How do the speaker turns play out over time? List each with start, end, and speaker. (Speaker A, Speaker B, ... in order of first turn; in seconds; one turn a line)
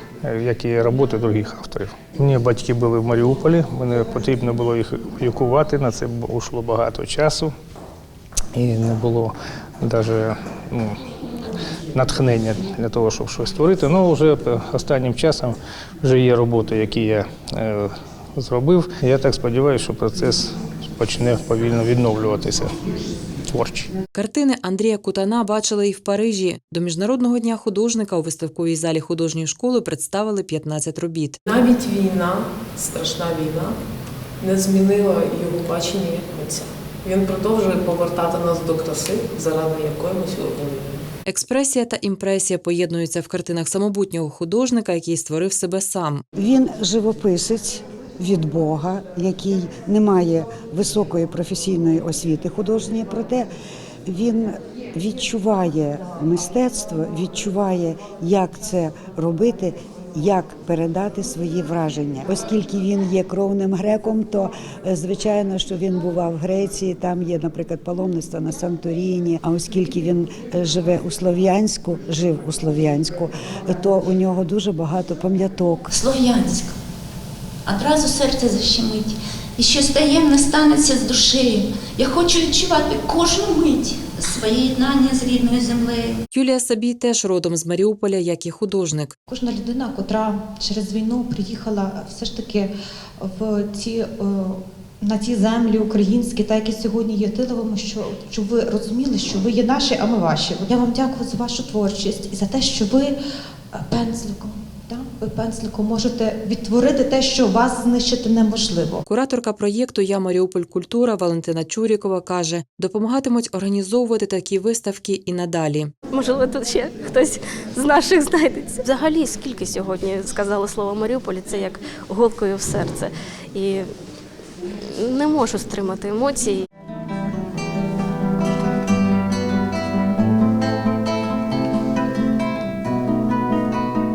Speaker A: 0.2-7.5
Speaker A: 8.5-11.0
Speaker A: 11.9-22.8
Speaker A: 23.5-23.9
Speaker B: 24.1-31.4
Speaker C: 31.5-33.8
Speaker C: 34.4-41.1
Speaker B: 41.3-46.2
Speaker D: 46.4-53.5
Speaker D: 54.1-75.9
Speaker E: 75.9-76.7
Speaker E: 77.7-86.2
Speaker B: 86.3-89.1
Speaker F: 89.3-103.1
Speaker F: 103.7-109.0
Speaker B: 109.1-115.9
Speaker G: 116.1-123.9
Speaker G: 124.8-126.7